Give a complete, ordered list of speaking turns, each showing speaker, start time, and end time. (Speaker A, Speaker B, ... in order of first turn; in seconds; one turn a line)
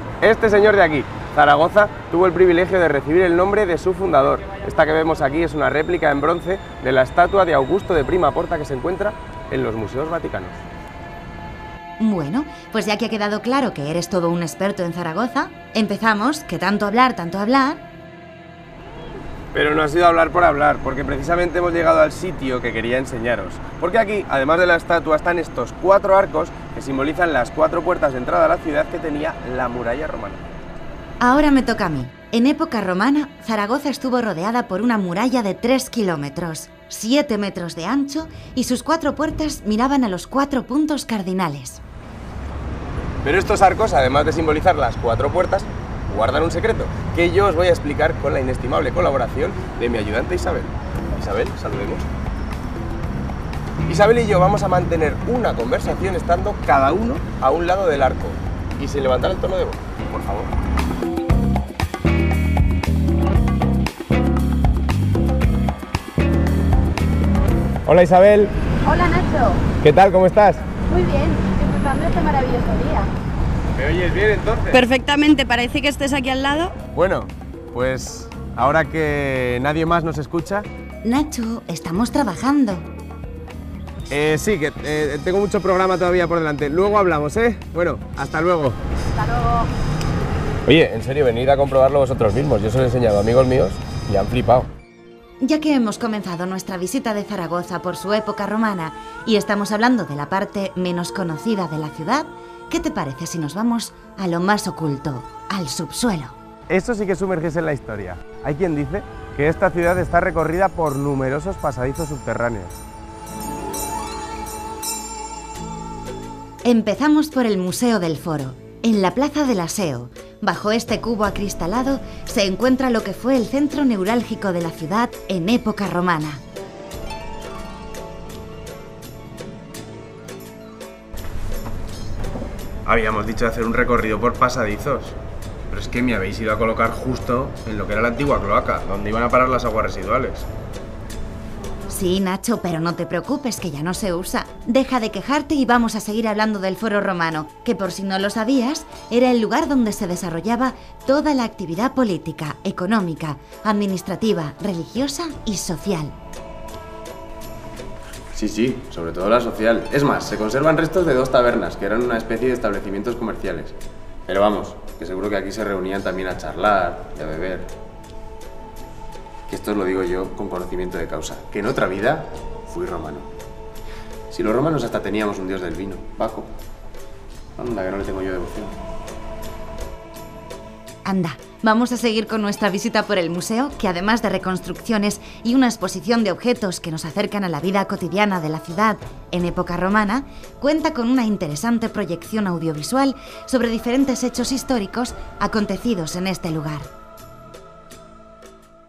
Speaker A: 0.2-10.6
Speaker B: 12.0-17.8
Speaker A: 19.5-30.4
Speaker B: 31.2-41.8
Speaker A: 43.2-52.1
Speaker A: 53.9-60.5
Speaker A: 67.8-68.5
Speaker C: 68.8-69.7
Speaker A: 69.8-70.6
Speaker C: 70.8-73.1
Speaker A: 73.7-74.8
Speaker D: 74.7-76.8
Speaker A: 76.9-80.7
Speaker B: 81.0-82.9
Speaker A: 84.1-88.8
Speaker C: 89.2-89.7
Speaker A: 90.7-94.7
Speaker B: 95.4-106.4
Speaker A: 106.7-112.8
Speaker B: 116.6-126.4
Speaker A: 132.9-135.2
Speaker A: 135.7-140.5
Speaker B: 141.9-156.2
Speaker A: 158.3-163.8
Speaker A: 164.3-167.7
Speaker A: 169.5-173.3
Speaker A: 174.3-176.5
Speaker A: 177.6-178.8
Speaker B: 181.1-196.9